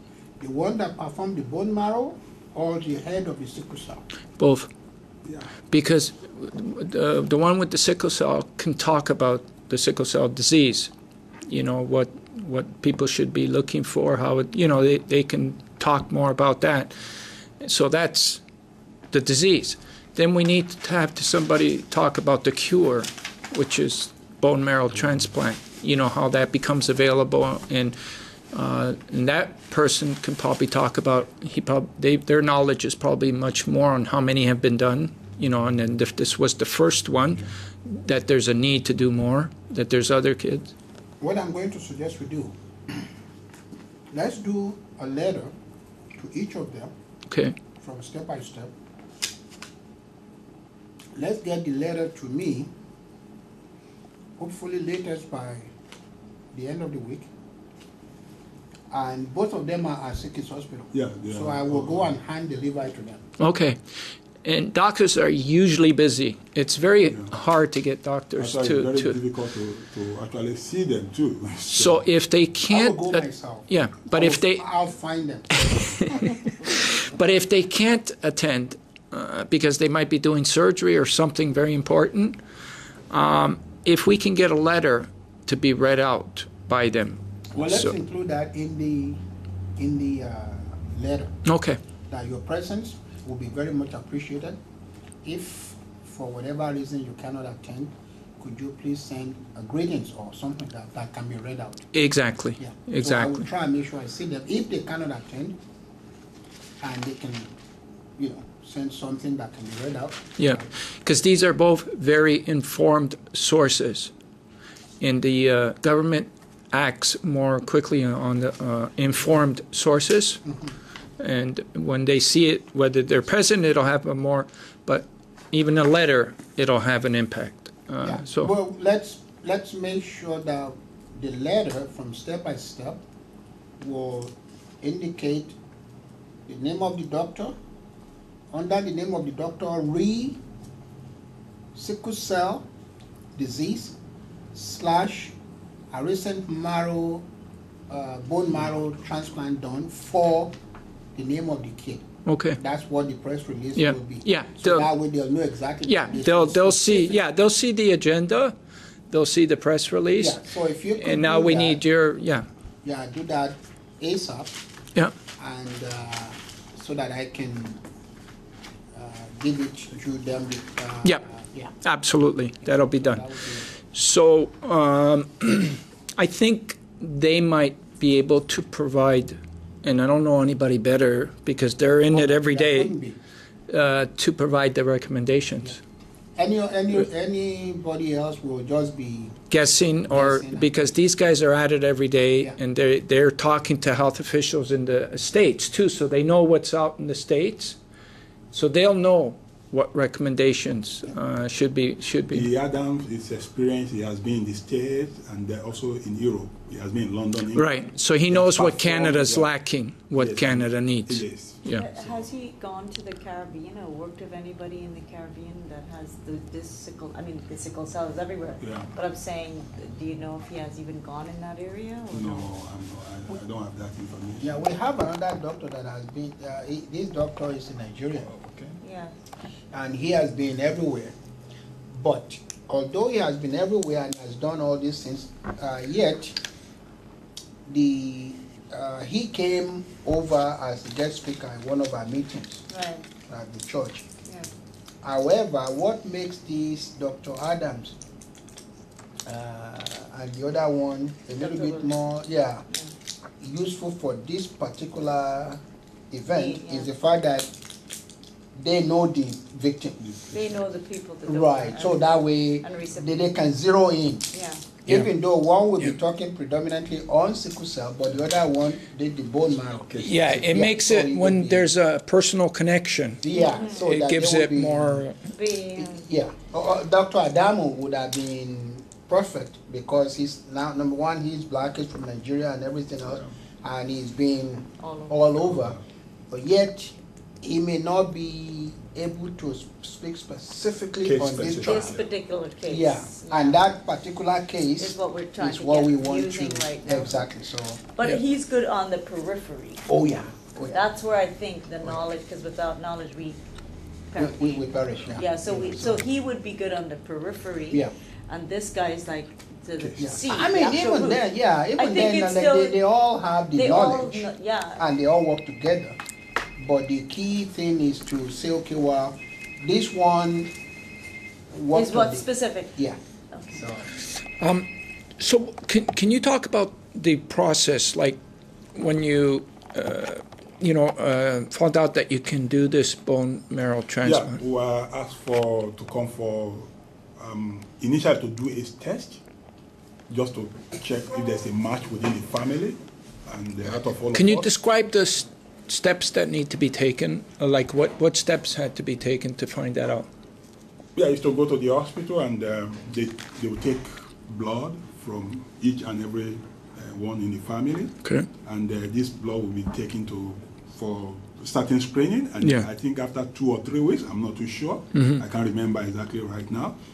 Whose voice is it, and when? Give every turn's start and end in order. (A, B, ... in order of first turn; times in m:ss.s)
0:00.4-0:04.0 A
0:04.4-0:04.7 B
0:05.3-0:05.5 C
0:05.7-0:10.9 B
0:11.5-0:18.4 B
0:19.1-0:40.7 B
0:41.2-0:43.1 A
0:44.1-0:45.5 A
0:46.2-0:46.9 A
0:47.3-0:47.5 B
0:47.8-0:48.7 A
0:51.2-0:52.7 A
0:54.4-0:55.7 A
0:56.5-0:57.3 A
0:58.9-1:03.2 A
1:00.9-1:02.2 C
1:03.4-1:03.8 B
1:04.4-1:09.2 B
1:07.0-1:07.4 C
1:08.4-1:12.0 C
1:11.7-1:14.9 B
1:12.7-1:16.9 A
1:15.6-1:22.4 B
1:23.1-1:28.0 B
1:27.5-1:29.2 A
1:29.8-1:31.3 A
1:31.4-1:31.8 B
1:32.1-1:34.6 A
1:35.2-1:41.9 A
1:41.9-1:43.5 B
1:42.6-1:45.6 A
1:46.8-1:47.5 A
1:48.2-1:50.7 A
1:50.4-1:54.1 B
1:55.0-2:00.4 B
2:00.5-2:00.7 A
2:01.2-2:08.5 B
2:08.0-2:13.0 A
2:13.8-2:15.6 A
2:16.5-2:17.6 A
2:18.5-2:20.4 A
2:21.8-2:22.7 A
2:23.4-2:24.0 A
2:24.5-2:25.3 A
2:25.9-2:27.2 A
2:27.9-2:30.5 A
2:31.2-2:32.0 A
2:32.3-2:32.6 B
2:32.6-2:37.2 A
2:33.8-2:34.9 B
2:35.8-2:38.6 B
2:39.1-2:40.4 B
2:40.2-2:41.8 A
2:41.0-2:42.5 B
2:42.8-2:44.6 A
2:45.4-2:47.8 A
2:48.9-2:51.7 A
2:51.8-2:53.2 B
2:52.6-2:53.7 A
2:53.9-3:03.0 B
3:02.1-3:03.2 A
3:03.7-3:05.8 B
3:06.4-3:09.4 A
3:09.5-3:17.8 B
3:10.1-3:10.9 A
3:18.5-3:22.5 B
3:22.3-3:27.8 C
3:27.5-3:31.9 B
3:28.3-3:29.5 C
3:30.1-3:32.3 C
3:31.7-3:42.5 D
3:38.6-3:38.9 C
3:42.1-3:44.6 C
3:44.4-3:48.3 A
3:48.2-3:48.8 C
3:48.8-3:49.1 D
3:49.7-3:51.2 A
3:51.9-3:56.4 A
3:57.7-4:02.6 A
4:02.7-4:03.0 D
4:03.3-4:04.1 A
4:05.0-4:08.0 A
4:09.3-4:12.7 A
4:11.4-4:12.0 D
4:13.4-4:17.5 A
4:16.3-4:16.9 D
4:18.6-4:20.0 A
4:20.0-4:20.7 C
4:20.3-4:23.2 D
4:21.2-4:24.3 A
4:24.3-4:24.7 D
4:24.8-4:31.7 A
4:24.9-4:25.1 B
4:29.7-4:30.5 C
4:30.0-4:35.3 B
4:33.2-4:35.1 A
4:33.3-4:33.8 D
4:35.4-4:36.1 D
4:35.8-4:45.8 A
4:44.8-4:45.3 D
4:45.4-4:45.8 C
4:46.3-4:52.0 A
4:51.0-4:52.1 C
4:51.6-4:53.6 D
4:52.7-4:57.8 A
4:54.8-4:57.2 D
4:58.0-4:59.9 D
4:59.9-5:00.8 A
5:00.6-5:03.4 D
5:04.1-5:04.6 D
5:04.2-5:06.1 A
5:05.2-5:11.2 D
5:09.9-5:16.0 A
5:11.8-5:12.8 D
5:13.5-5:14.8 D
5:16.6-5:20.5 A
5:21.5-5:23.0 A
5:21.7-5:22.8 D
5:23.3-5:23.7 D
5:23.5-5:23.9 A
5:24.4-5:28.2 B
5:28.8-5:34.4 B
5:34.0-5:39.2 C
5:40.1-5:44.5 C
5:44.1-5:50.1 B
5:51.0-6:06.8 C
6:02.4-6:02.7 B
6:04.9-6:05.2 B